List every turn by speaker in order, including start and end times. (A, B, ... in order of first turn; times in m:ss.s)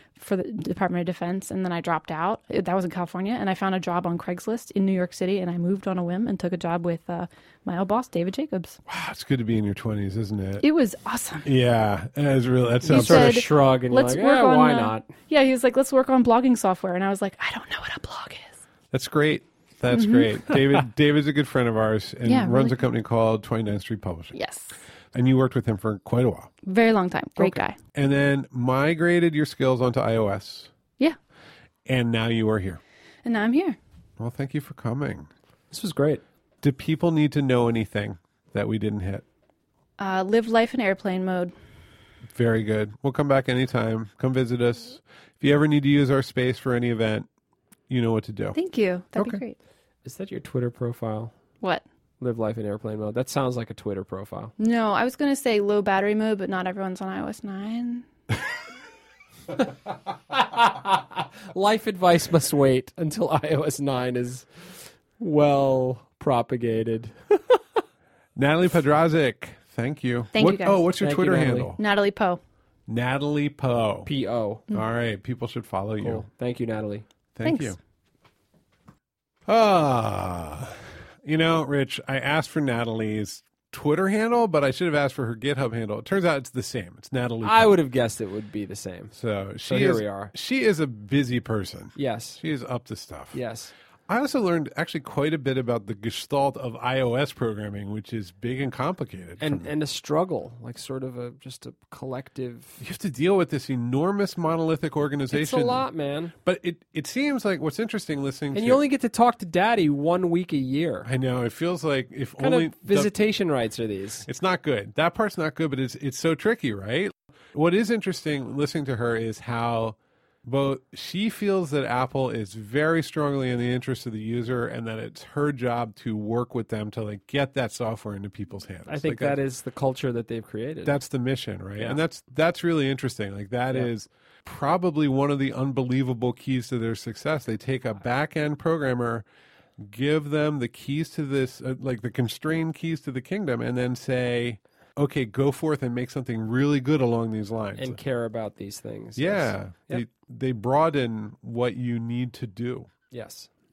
0:00.2-0:08.8 A
0:08.9-0:10.6 B
0:10.6-0:11.5 A
0:11.4-0:13.4 B
0:12.8-0:18.6 A
0:12.9-0:15.1 C
0:18.9-0:24.3 B
0:19.9-0:20.3 A
0:22.2-0:22.8 A
0:24.3-0:24.8 A
0:25.1-0:26.5 B
0:26.6-0:27.8 A
0:27.4-0:30.7 B
0:31.8-0:32.8 B
0:33.2-0:33.8 A
0:34.2-0:35.3 B
0:35.7-0:36.2 C
0:36.6-0:39.2 B
0:40.0-0:41.5 A
0:42.3-0:47.3 B
0:47.9-0:48.6 B
0:48.5-0:49.6 A
0:49.2-0:49.4 B
0:50.0-0:51.3 C
0:52.2-0:54.5 C
0:54.6-0:58.0 A
1:00.3-1:07.8 C
1:08.4-1:11.8 B
1:10.3-1:10.9 A
1:11.0-1:11.7 C
1:11.8-1:12.4 A
1:12.9-1:14.1 B
1:14.0-1:14.6 C
1:14.7-1:16.2 B
1:16.0-1:17.0 C
1:17.3-1:17.8 B
1:17.4-1:17.8 A
1:19.5-1:27.8 B
1:27.4-1:29.1 C
1:29.1-1:33.4 B
1:29.6-1:30.3 C
1:32.0-1:32.4 C
1:33.3-1:33.7 C
1:34.1-1:39.7 B
1:39.4-1:42.8 C
1:42.8-1:45.9 B
1:45.3-1:46.3 C
1:46.4-1:48.8 B
1:48.5-1:51.1 C
1:51.0-1:53.1 B
1:52.4-1:54.2 C
1:54.2-2:09.4 B
2:08.9-2:11.0 C
2:10.8-2:19.2 B
2:19.8-2:28.0 B
2:27.8-2:30.0 C
2:29.2-2:32.9 B
2:33.1-2:33.5 C